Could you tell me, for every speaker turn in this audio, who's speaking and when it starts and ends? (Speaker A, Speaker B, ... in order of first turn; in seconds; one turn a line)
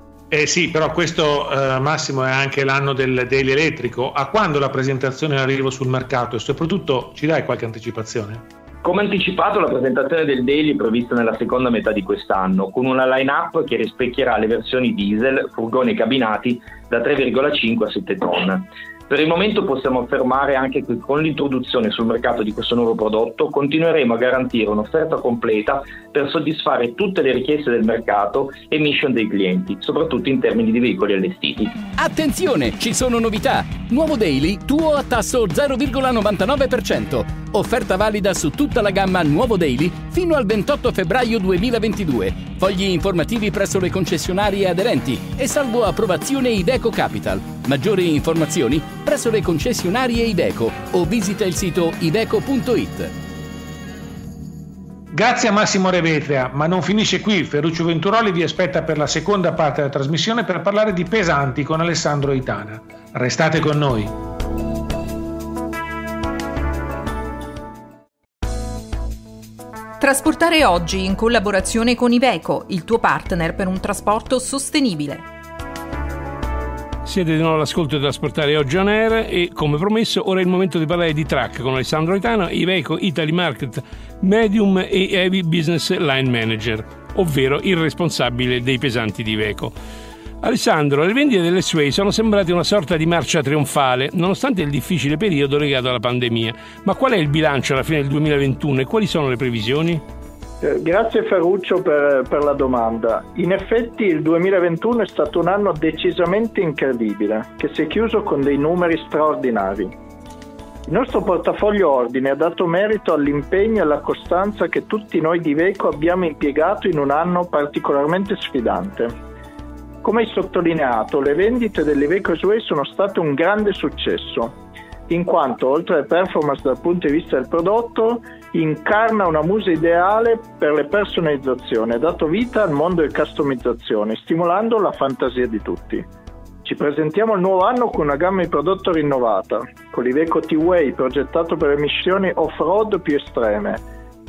Speaker A: 0.3-8.4
Speaker B: 8.8-31.9
Speaker C: 32.0-53.1
Speaker A: 55.1-64.1
Speaker D: 70.0-75.2
Speaker E: 77.0-89.8
Speaker E: 90.4-100.0
Speaker F: 100.6-109.9
Speaker F: 110.9-119.1
Speaker F: 120.0-124.5
Speaker F: 125.1-136.0
Speaker F: 136.6-143.8